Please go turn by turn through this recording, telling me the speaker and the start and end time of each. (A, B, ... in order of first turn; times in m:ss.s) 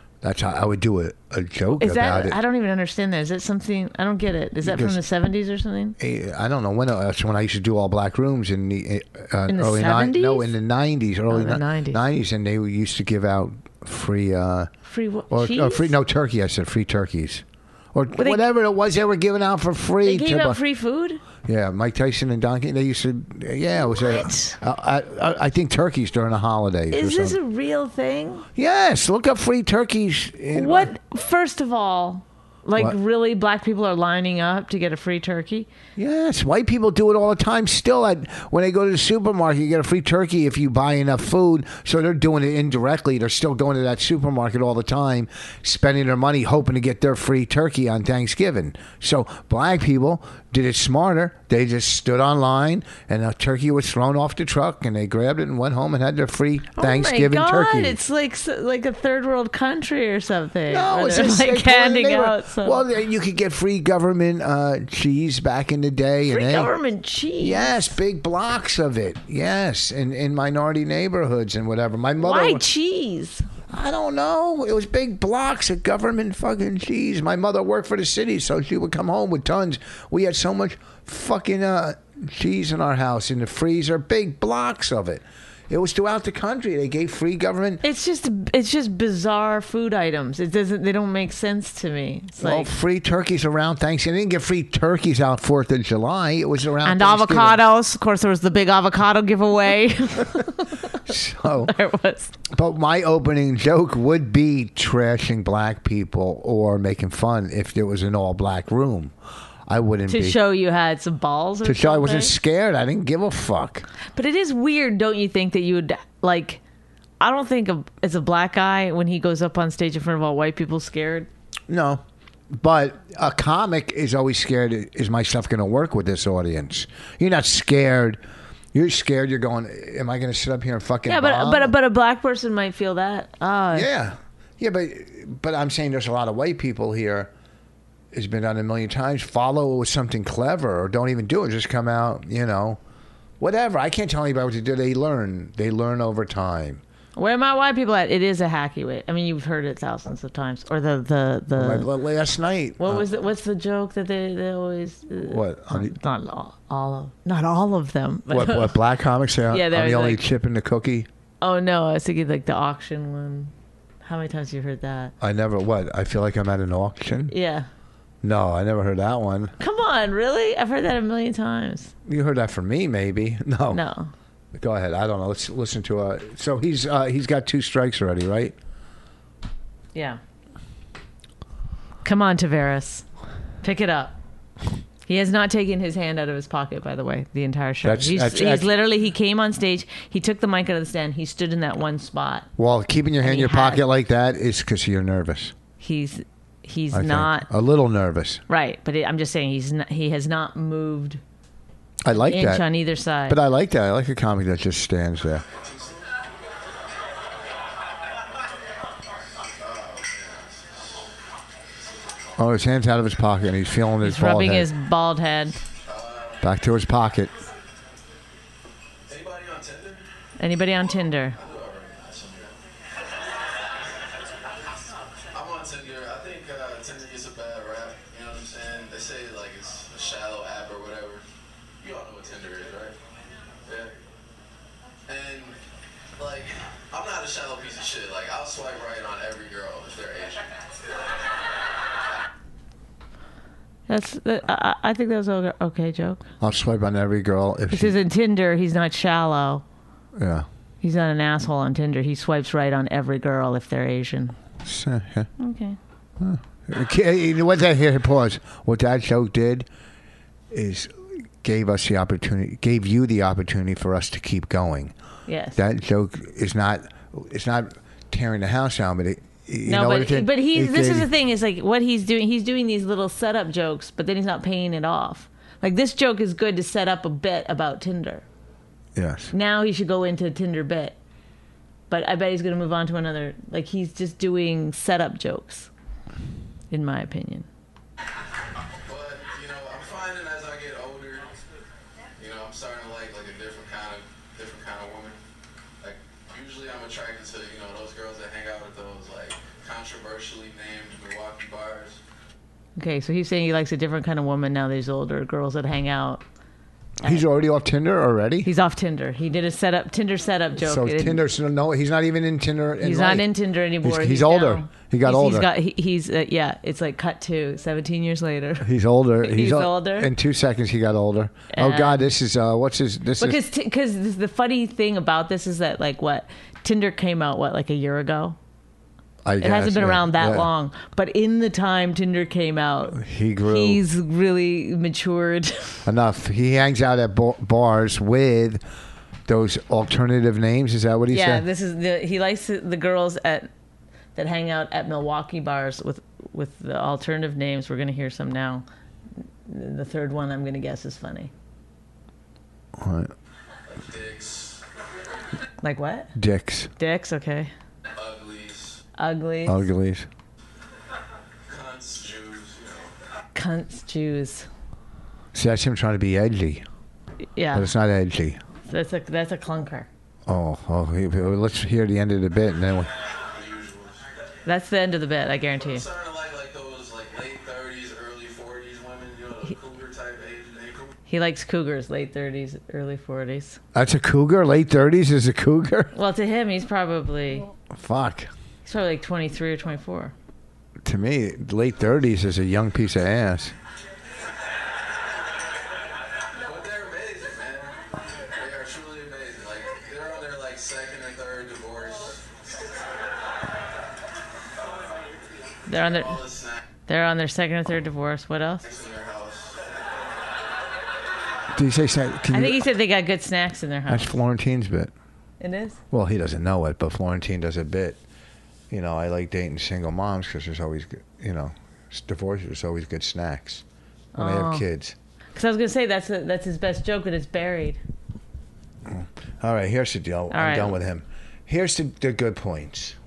0:00.2-0:02.4 A
0:01.8-0:06.0 B
0:04.6-0:05.0 A
0:06.0-0:14.7 A
0:09.5-0:10.5 B
0:11.3-0:12.0 B
0:14.8-0:15.9 B
0:15.3-0:20.6 A
0:18.1-0:18.4 B
0:20.0-0:21.2 B
0:21.4-0:27.4 A
0:24.0-0:24.6 B
0:26.9-0:28.4 B
0:28.6-0:30.9 A
0:30.5-0:35.7 B
0:36.0-0:58.0 A
0:56.8-1:02.8 B
1:00.7-1:06.7 A
1:06.3-1:07.9 B
1:07.4-1:12.6 A
1:12.2-1:13.5 B
1:13.7-1:27.8 A
1:27.8-1:32.7 B
1:32.4-1:37.6 A
1:36.8-1:42.4 B
1:41.0-1:41.7 A
1:42.5-1:49.1 A
1:49.7-1:50.4 A
1:50.1-1:52.4 B
1:51.6-1:53.9 A
1:54.1-1:56.6 B
1:57.2-2:01.3 B
2:01.7-2:02.0 A
2:02.5-2:08.2 A
2:08.7-2:11.7 A
2:11.0-2:13.9 B
2:13.7-2:17.3 A
2:18.1-2:22.8 A
2:23.4-2:26.8 A
2:27.2-2:31.9 B
2:31.5-2:33.1 A
2:32.8-2:38.8 B
2:35.2-2:35.9 A
2:38.3-2:41.1 A
2:39.5-2:40.2 B
2:41.4-2:45.1 B
2:45.2-2:47.3 A
2:47.3-2:47.7 B
2:48.2-2:49.5 A
2:49.6-2:51.9 B
2:52.0-2:53.8 A
2:53.7-2:54.1 B
2:54.5-2:58.5 A
2:59.9-3:00.2 B
3:02.0-3:03.0 B
3:03.6-3:04.2 B
3:05.0-3:12.5 B
3:07.8-3:08.7 A
3:12.6-3:15.5 A
3:13.2-3:13.8 B
3:15.8-3:17.5 B
3:16.9-3:18.4 A
3:18.5-3:21.2 B
3:22.0-3:22.6 A
3:22.1-3:23.4 B
3:23.3-3:25.4 A
3:25.5-3:26.2 C
3:29.6-3:31.1 C
3:31.7-3:32.4 C
3:32.4-3:34.7 A
3:34.0-3:35.6 B
3:35.8-3:36.5 C
3:36.4-3:37.3 A
3:39.1-3:40.1 C
3:40.4-3:41.4 B
3:41.3-3:42.6 C
3:45.3-3:51.2 C
3:51.8-3:53.0 C
3:53.6-3:54.0 C
3:55.1-3:55.6 C
3:56.2-4:00.5 C
4:03.9-4:06.2 B
4:06.4-4:08.0 A
4:07.7-4:09.6 B
4:10.2-4:10.4 A
4:10.8-4:14.4 B
4:14.6-4:15.3 A
4:15.4-4:15.8 B
4:16.2-4:19.7 A
4:20.5-4:24.9 A
4:25.3-4:25.6 B
4:25.6-4:31.1 A
4:29.6-4:38.2 B
4:38.9-4:39.3 A
4:39.3-4:41.0 B
4:41.9-4:45.7 B
4:46.7-4:47.5 B
4:48.8-4:51.3 C
4:52.2-4:55.2 C
4:55.8-5:02.0 C
5:02.8-5:06.2 B
5:07.0-5:08.5 A
5:08.4-5:11.2 B
5:10.6-5:13.3 A
5:12.8-5:18.7 B
5:13.8-5:15.5 A
5:18.6-5:23.4 A
5:19.2-5:20.1 B
5:21.5-5:22.1 B
5:23.2-5:28.4 B
5:29.2-5:30.5 A
5:29.4-5:35.8 B
5:32.9-5:33.8 A
5:35.8-5:38.6 A
5:39.3-5:41.4 A
5:41.1-5:43.5 B
5:44.1-5:48.6 B
5:49.4-5:51.3 B
5:52.8-5:53.1 A
5:53.6-5:54.6 C
5:55.6-5:56.1 B
5:56.1-5:56.7 A
5:56.8-5:57.5 B
5:57.9-5:58.8 C
5:59.0-5:59.6 B
5:59.4-6:00.1 A
6:01.5-6:02.9 C
6:03.3-6:04.5 B
6:05.3-6:06.6 A
6:07.4-6:07.7 B
6:07.5-6:08.4 A
6:08.7-6:09.9 B
6:10.3-6:12.9 A
6:13.2-6:14.0 C
6:14.4-6:15.8 B
6:15.6-6:20.9 C
6:21.1-6:23.6 B
6:23.7-6:25.9 A
6:25.9-6:27.5 B
6:27.7-6:28.3 A
6:28.6-6:30.1 B
6:30.8-6:33.5 A
6:36.3-6:42.3 C
6:45.7-6:46.2 B
6:45.8-6:46.6 C
6:46.9-6:48.6 B
6:48.6-6:49.6 C
6:51.5-6:52.7 A
6:52.3-6:54.1 B
6:53.9-6:54.9 A
6:55.4-6:55.8 B
6:55.9-6:58.0 A
6:58.7-7:03.6 A
7:04.2-7:04.6 B
7:04.2-7:05.0 A
7:05.3-7:07.8 B
7:08.8-7:13.0 A
7:10.3-7:10.8 B